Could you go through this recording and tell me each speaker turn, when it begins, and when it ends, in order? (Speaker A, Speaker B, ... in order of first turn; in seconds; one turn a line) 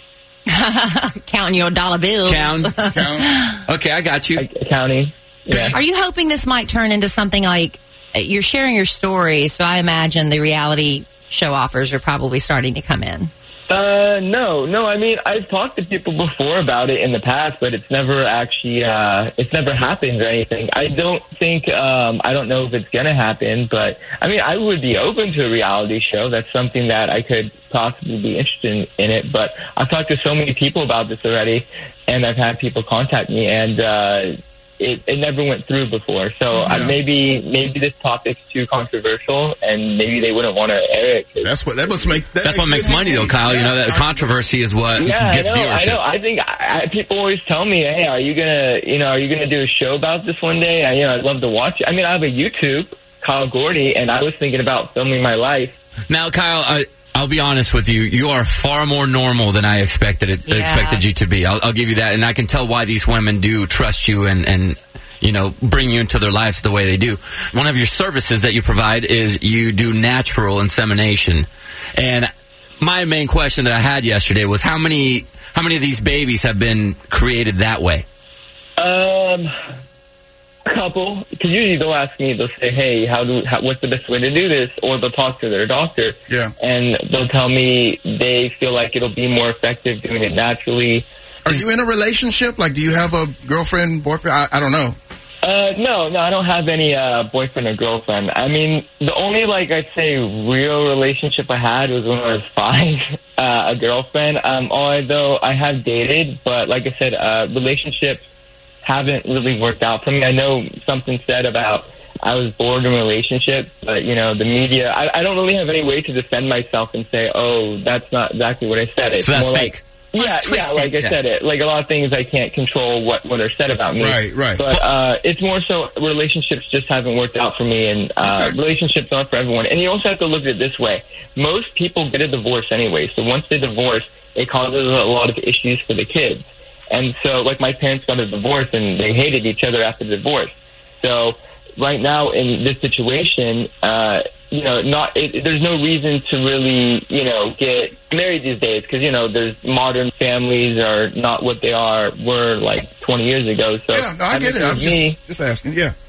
Speaker A: 0.5-3.6
Speaker B: 2.2-2.8
Speaker C: 2.9-3.3
Speaker B: 3.7-4.4
Speaker D: 4.4-5.8
Speaker A: 5.7-13.3
Speaker D: 13.7-42.2
Speaker C: 36.6-37.0
Speaker C: 41.4-44.3
Speaker B: 42.4-46.0
Speaker D: 45.0-55.8
Speaker B: 56.1-78.1
Speaker A: 60.5-61.0
Speaker D: 78.8-79.5
Speaker D: 80.7-91.1
Speaker C: 91.5-95.0
Speaker D: 95.4-108.3
Speaker D: 108.8-155.2
Speaker B: 119.2-119.8
Speaker A: 120.2-120.9
Speaker C: 124.0-124.6
Speaker C: 128.3-128.5
Speaker C: 153.9-155.9